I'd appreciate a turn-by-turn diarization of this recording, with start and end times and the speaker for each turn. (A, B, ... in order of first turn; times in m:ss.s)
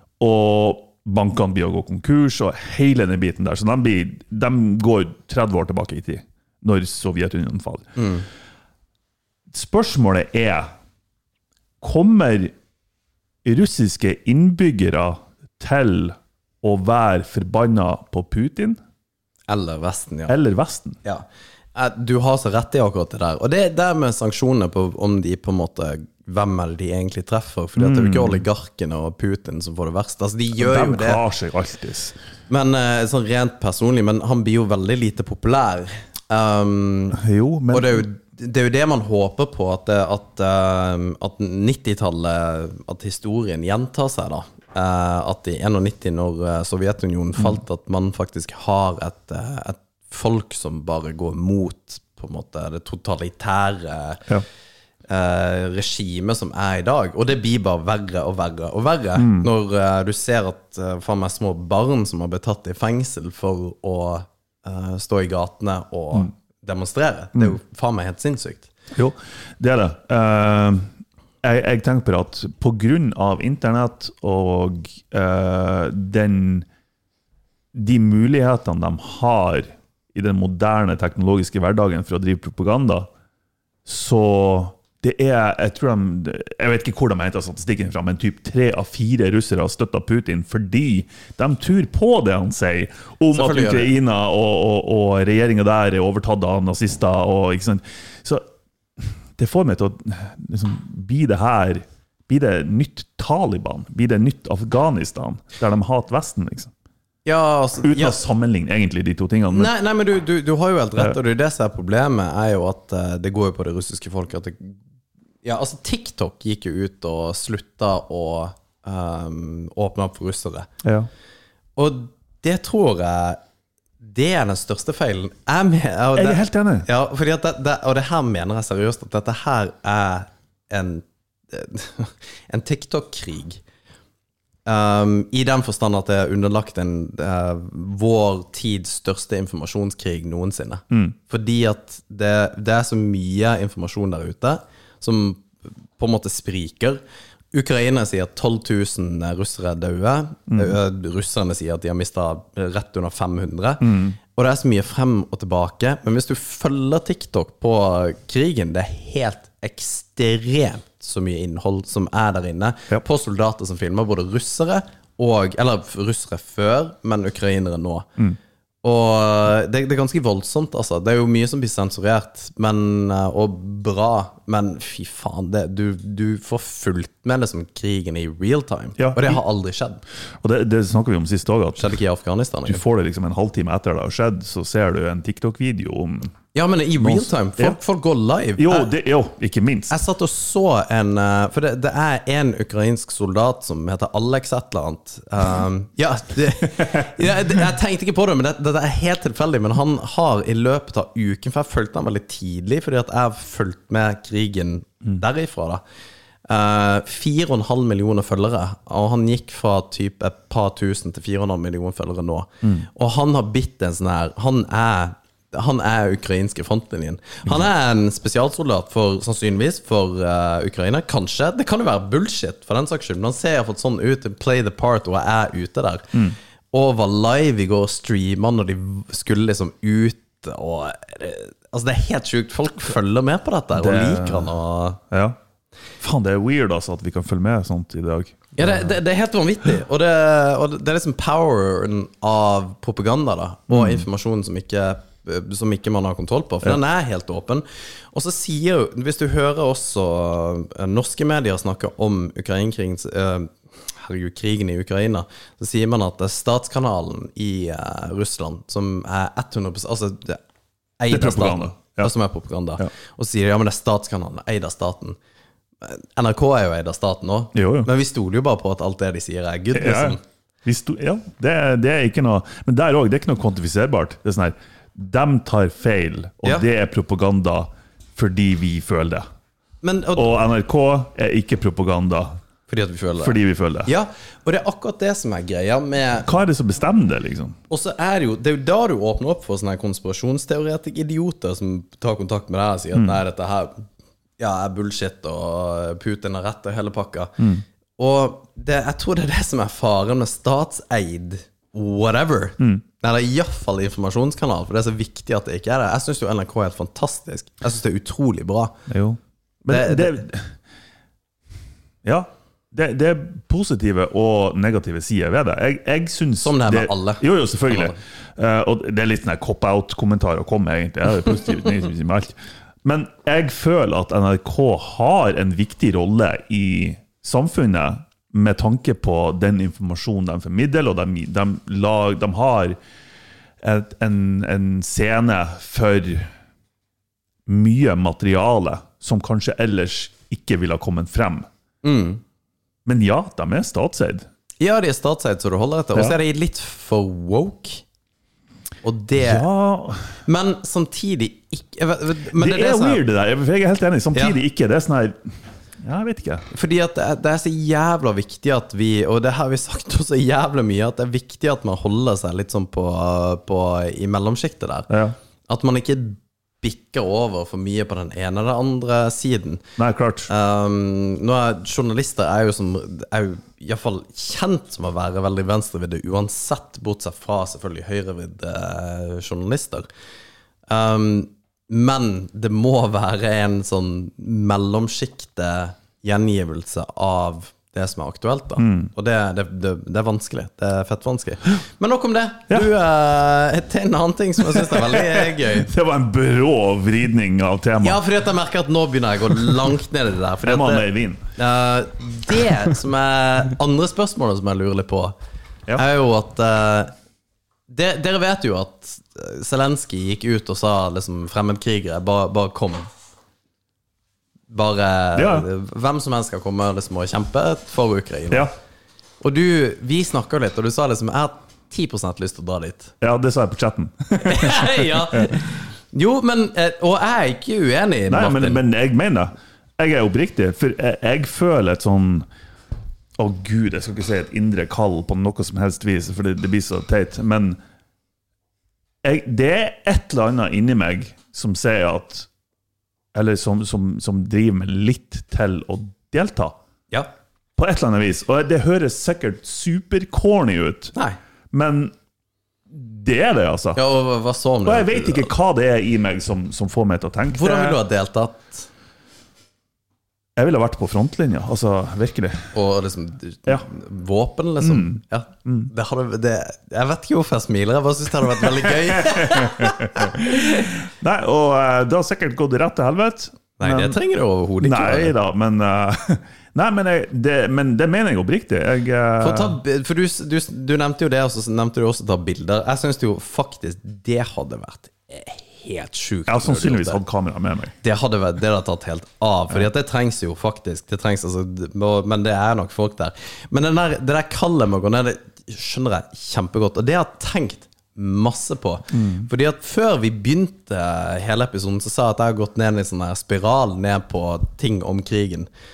0:00.2-0:08.0 A
0:08.0-0:08.2 B
0:09.5-0:10.7 A
0:11.8-0:12.5 A
0:13.4-0:18.8 A
0:19.5-0:20.3 B
0:20.3-0:21.0 A
0:21.0-0:31.2 B
0:27.8-0:28.4 A
0:30.6-0:32.1 A
0:32.5-0:37.2 B
0:37.1-0:38.0 A
0:37.7-0:54.3 B
0:55.1-1:08.7 B
0:59.2-0:59.5 A
1:08.9-1:10.9 A
1:11.4-1:16.6 A
1:17.7-1:23.1 A
1:23.8-1:38.4 A
1:33.3-1:33.9 B
1:39.0-1:46.7 A
1:47.2-1:48.2 B
1:47.8-1:49.7 A
1:49.5-1:54.8 B
1:55.4-2:00.7 B
2:00.8-2:01.1 A
2:01.8-2:03.4 B
2:04.0-2:13.6 B
2:06.2-2:06.9 A
2:14.6-2:27.0 B
2:27.5-2:48.1 B
2:30.5-2:30.8 A
2:33.8-2:34.1 A
2:48.8-3:00.0 B
2:59.0-2:59.4 A
3:00.4-3:02.0 A
3:01.8-3:02.8 B
3:02.6-3:06.3 A
3:06.5-3:08.9 B
3:07.0-3:07.8 A
3:08.6-3:09.9 A
3:09.9-3:25.8 B
3:26.5-3:46.1 B
3:46.7-3:55.0 B
3:53.8-3:54.5 A
3:55.1-3:55.4 A
3:56.0-3:59.0 A
3:58.6-4:20.4 B
4:03.7-4:04.0 A
4:21.0-4:25.2 B
4:21.1-4:22.1 A
4:25.8-4:30.2 B
4:27.5-4:27.9 A
4:29.7-4:39.2 A
4:39.8-4:40.4 B
4:40.2-4:42.4 A
4:42.7-4:46.3 B
4:43.2-4:43.9 A
4:46.2-4:47.6 A
4:47.7-4:53.8 B
4:54.4-4:57.4 B
4:58.0-5:08.7 B
5:08.9-5:10.5 A
5:09.7-5:10.2 B
5:12.0-5:32.8 A
5:16.4-5:18.0 B
5:33.6-5:36.3 A
5:37.5-5:41.5 A
5:41.8-5:42.2 B
5:42.8-5:44.2 A
5:44.6-5:47.8 B
5:48.8-5:49.4 B
5:49.2-5:50.2 A
5:50.2-5:53.0 B
5:52.3-5:56.4 A
5:56.5-6:04.9 B
6:04.9-6:05.2 A
6:05.5-6:09.6 B
6:09.8-6:10.3 A
6:10.3-6:19.9 B
6:20.7-6:35.7 B
6:28.6-6:28.9 A
6:34.5-6:38.0 A
6:37.8-6:45.1 B
6:40.4-6:41.2 A
6:45.7-6:46.9 B
6:47.7-6:52.9 B
6:54.5-6:58.5 B
6:55.1-6:55.5 A
6:59.2-7:02.9 B
7:03.0-7:05.3 A
7:04.2-7:08.6 B
7:08.1-7:12.3 A
7:13.2-7:17.6 A
7:19.0-7:22.3 A
7:23.1-7:26.5 A
7:27.6-7:30.9 A
7:31.5-7:31.9 A
7:32.7-7:33.8 A
7:33.8-7:35.3 B
7:34.6-7:37.8 A
7:37.3-7:38.7 B
7:40.4-7:42.5 A
7:42.5-7:50.7 B
7:44.6-7:45.7 A
7:48.5-7:54.0 A
7:53.6-7:55.1 B
7:54.6-7:59.6 A
7:59.2-8:07.0 B
8:06.3-8:07.7 A
8:07.8-8:25.5 B
8:18.9-8:19.3 A